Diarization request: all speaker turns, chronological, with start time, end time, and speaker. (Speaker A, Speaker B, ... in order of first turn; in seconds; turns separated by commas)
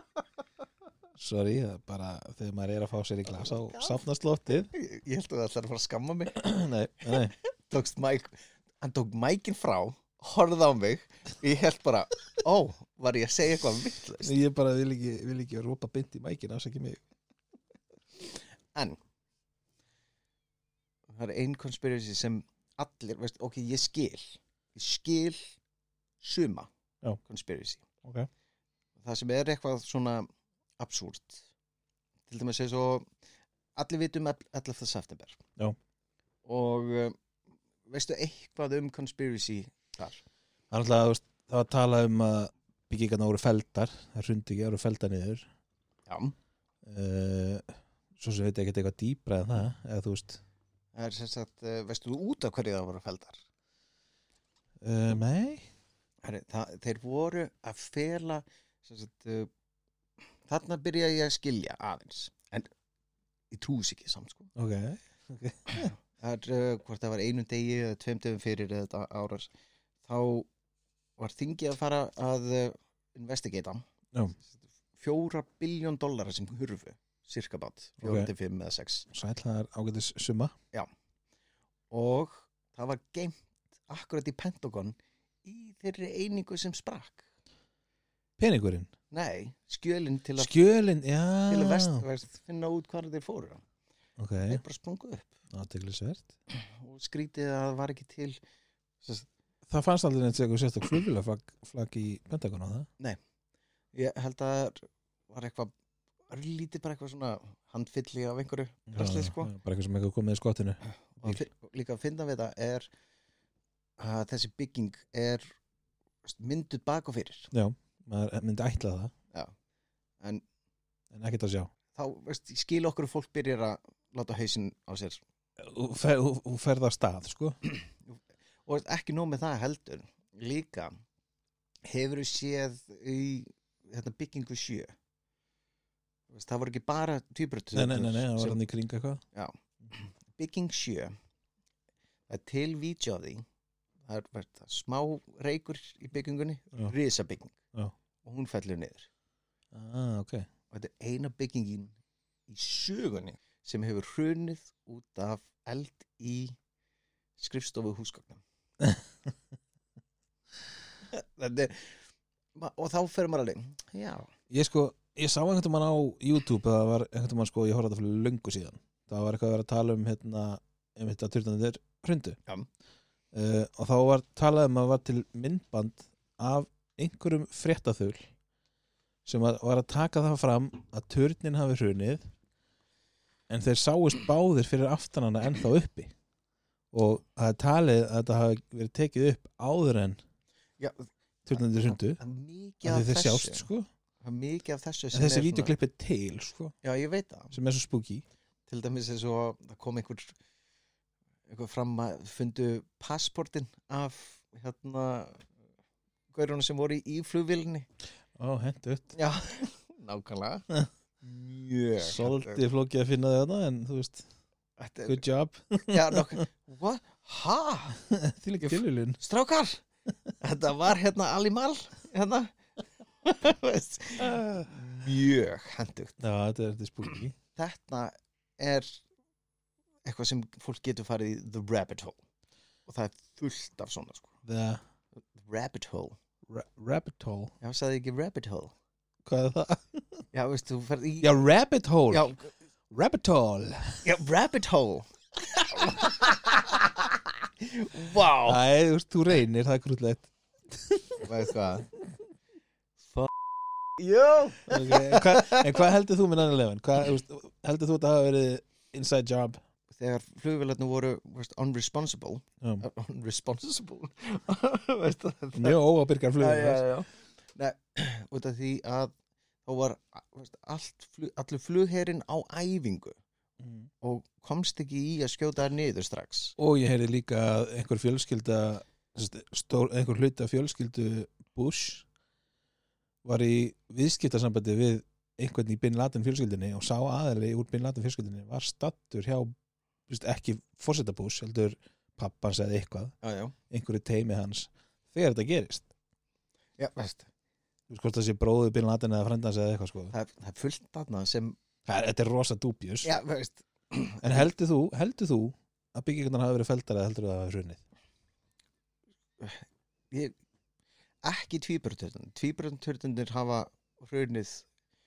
Speaker A: 1.2-4.7, Speaker B: 3.3-4.0, Speaker B: 4.7-6.4, Speaker A: 6.3-7.4, Speaker B: 7.0-14.4, Speaker A: 14.2-17.0, Speaker B: 18.2-19.0, Speaker B: 21.1-25.5, Speaker B: 26.2-26.7, Speaker B: 27.3-27.9, Speaker A: 28.0-28.3, Speaker B: 29.0-30.3, Speaker B: 30.8-31.5, Speaker B: 32.3-33.1, Speaker B: 33.8-35.4, Speaker B: 36.5-37.2, Speaker B: 37.9-40.2, Speaker A: 40.7-45.5, Speaker B: 46.1-46.4, Speaker A: 46.9-50.4, Speaker B: 51.0-53.4, Speaker A: 54.8-55.7, Speaker B: 56.2-59.5, Speaker B: 60.5-62.7, Speaker B: 63.5-64.5, Speaker A: 64.6-65.9, Speaker B: 65.8-69.5, Speaker B: 70.0-70.5, Speaker B: 71.2-73.8, Speaker B: 74.5-79.1, Speaker A: 78.0-78.3, Speaker A: 79.1-80.5, Speaker B: 81.9-87.2, Speaker A: 88.4-88.9, Speaker B: 89.1-90.5, Speaker A: 90.4-92.0, Speaker B: 91.5-93.6, Speaker A: 94.2-94.6, Speaker B: 94.5-95.3, Speaker A: 95.5-96.3, Speaker B: 96.5-98.4, Speaker B: 99.0-99.3, Speaker A: 99.7-102.9, Speaker B: 103.9-105.7, Speaker B: 106.3-109.5, Speaker A: 108.9-111.4, Speaker B: 111.2-112.9, Speaker B: 114.0-115.5, Speaker B: 116.2-117.5, Speaker A: 117.5-119.1, Speaker A: 121.1-121.7, Speaker B: 121.9-125.2, Speaker A: 125.6-127.6, Speaker B: 127.7-130.9, Speaker B: 131.8-134.9, Speaker B: 136.3-138.6, Speaker A: 137.7-139.2, Speaker B: 139.3-141.1, Speaker B: 142.3-143.4, Speaker B: 144.0-147.6, Speaker B: 148.2-149.1, Speaker A: 149.7-150.5, Speaker B: 150.7-152.0, Speaker B: 152.5-156.6, Speaker B: 157.4-158.4, Speaker B: 161.1-162.0, Speaker B: 162.6-164.3, Speaker A: 164.5-172.4, Speaker A: 173.3-178.3, Speaker A: 179.3-182.3, Speaker A: 183.5-186.1, Speaker A: 186.9-190.2, Speaker B: 190.8-193.7, Speaker A: 191.5-192.2, Speaker A: 192.8-193.9, Speaker B: 194.2-195.7, Speaker A: 195.1-196.8, Speaker B: 196.8-197.5, Speaker A: 197.5-198.2, Speaker B: 198.7-200.3, Speaker B: 201.5-205.4, Speaker B: 206.3-207.9, Speaker A: 208.4-209.2, Speaker B: 209.1-210.7, Speaker B: 211.2-212.6, Speaker A: 212.0-214.3, Speaker B: 214.8-215.2, Speaker A: 215.1-216.4, Speaker B: 215.9-218.0, Speaker A: 218.0-219.2, Speaker B: 218.6-219.8, Speaker B: 220.4-222.6, Speaker B: 223.2-226.2, Speaker A: 224.3-224.7, Speaker A: 226.2-227.4, Speaker B: 227.6-229.0, Speaker B: 230.1-232.2, Speaker B: 232.9-234.3, Speaker A: 234.4-234.8, Speaker B: 235.3-236.2, Speaker A: 236.5-237.5, Speaker B: 237.6-238.8, Speaker A: 239.3-240.2, Speaker B: 240.3-241.4, Speaker A: 241.2-242.3, Speaker B: 242.1-242.5, Speaker A: 242.9-244.1, Speaker B: 244.0-248.6, Speaker A: 248.4-251.3, Speaker B: 251.2-251.9, Speaker B: 253.1-253.3, Speaker B: 253.9-255.8, Speaker A: 254.7-259.6, Speaker B: 259.9-265.8, Speaker A: 265.5-266.9, Speaker B: 266.4-269.1, Speaker B: 269.7-273.2, Speaker A: 273.6-273.9, Speaker B: 274.0-276.6, Speaker A: 276.6-282.1, Speaker A: 283.2-289.5, Speaker A: 290.1-293.1, Speaker B: 293.2-293.6, Speaker A: 293.7-295.9, Speaker B: 296.8-297.3, Speaker A: 297.9-300.1, Speaker B: 300.1-301.6, Speaker A: 301.9-303.1, Speaker B: 303.0-304.5, Speaker A: 304.2-307.8, Speaker B: 309.4-310.4, Speaker B: 311.2-314.7